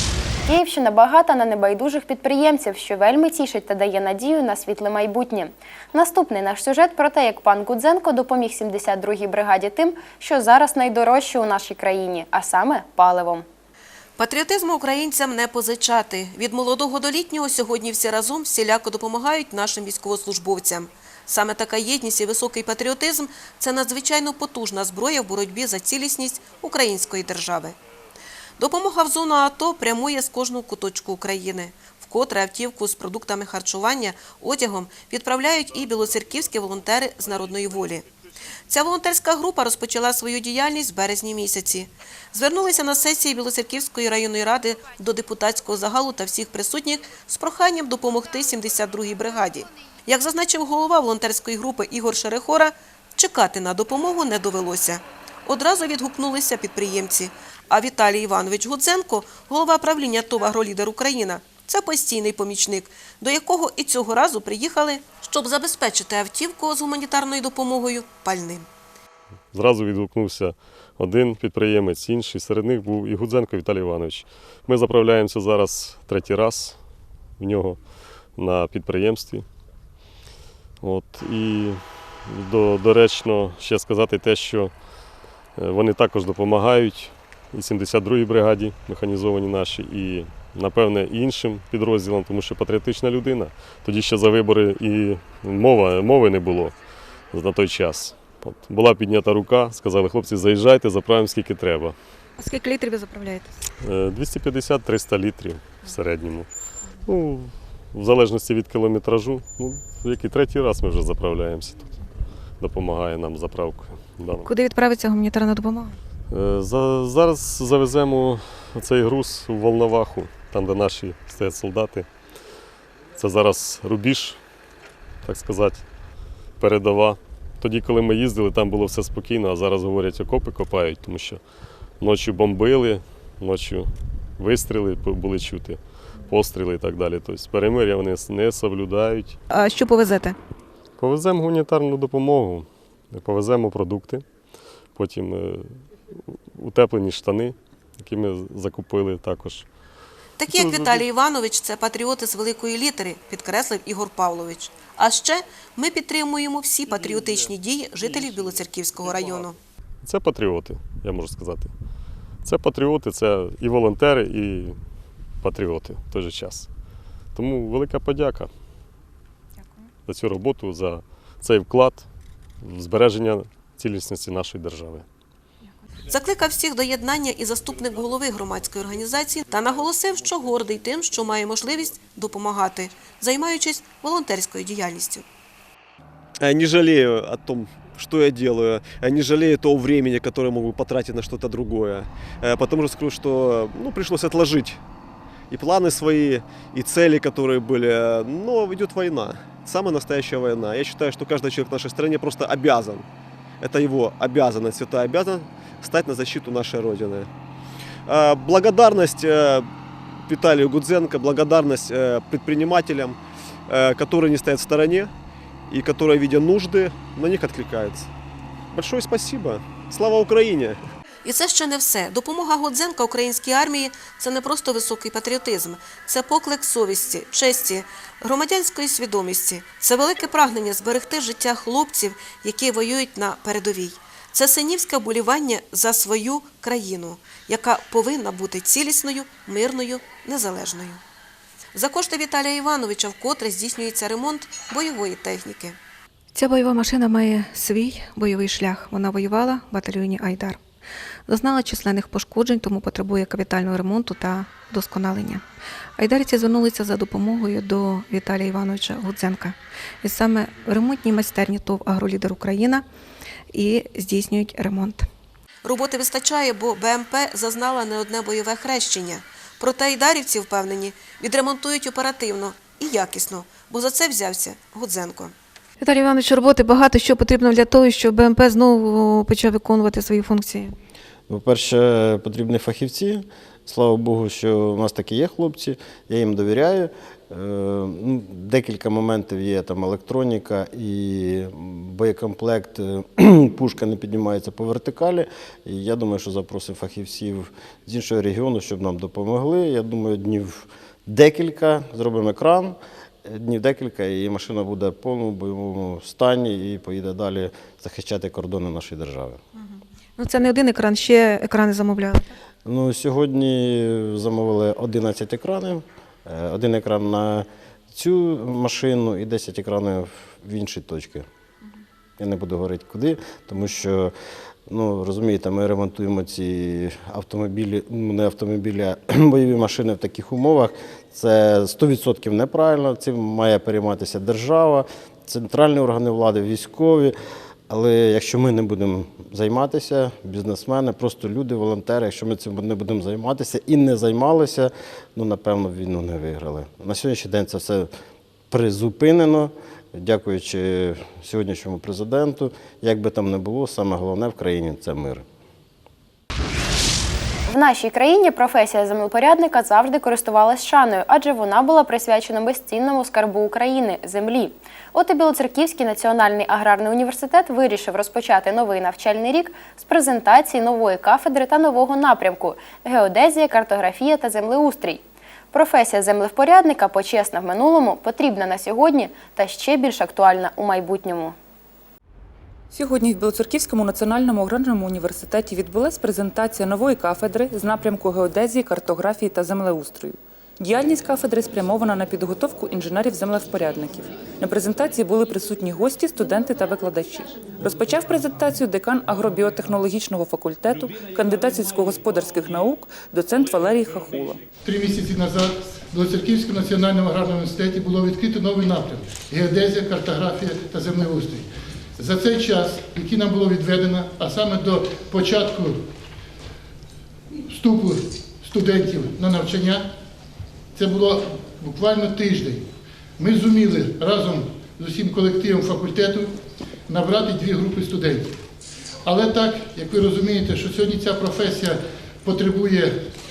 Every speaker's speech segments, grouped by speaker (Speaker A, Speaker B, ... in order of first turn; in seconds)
Speaker A: 0.4-13.4, 357.5-375.0, 375.5-381.4
Speaker B: 14.2-27.8, 28.6-38.0, 38.7-68.7, 150.4-159.6, 176.1-185.2, 221.2-241.0, 241.7-245.8, 265.6-275.3
Speaker C: 69.5-76.8, 77.4-77.8, 78.3-79.4, 80.8-84.7, 85.5-96.7, 97.3-101.9, 103.8-106.5, 107.0-111.9, 112.6-114.5, 116.3-122.1, 123.2-124.4, 125.2-125.8, 126.6-131.4, 132.0-139.4, 141.0-144.2, 144.9-149.7, 150.5-151.0, 160.0-161.7, 162.4-164.8, 165.4-166.7, 167.3-168.5, 170.1-172.0, 172.6-175.0
Speaker D: 102.4-103.5, 114.5-115.9, 139.5-140.3, 246.3-250.6, 251.3-255.4, 256.0-262.8, 263.5-265.1, 275.8-280.7, 310.2-312.2
Speaker E: 186.4-194.8, 195.5-203.1, 203.6-207.3, 208.1-215.1, 215.7-218.1, 218.7-220.8
Speaker F: 281.3-309.4, 312.6-321.2, 322.2-324.1, 324.7-337.1, 337.7-347.9, 348.5-355.2
Speaker G: 382.7-404.4
Speaker H: 404.6-411.5, 412.0-415.8, 417.5-419.9, 420.7-422.6, 423.2-426.3, 426.9-428.3, 429.1-432.9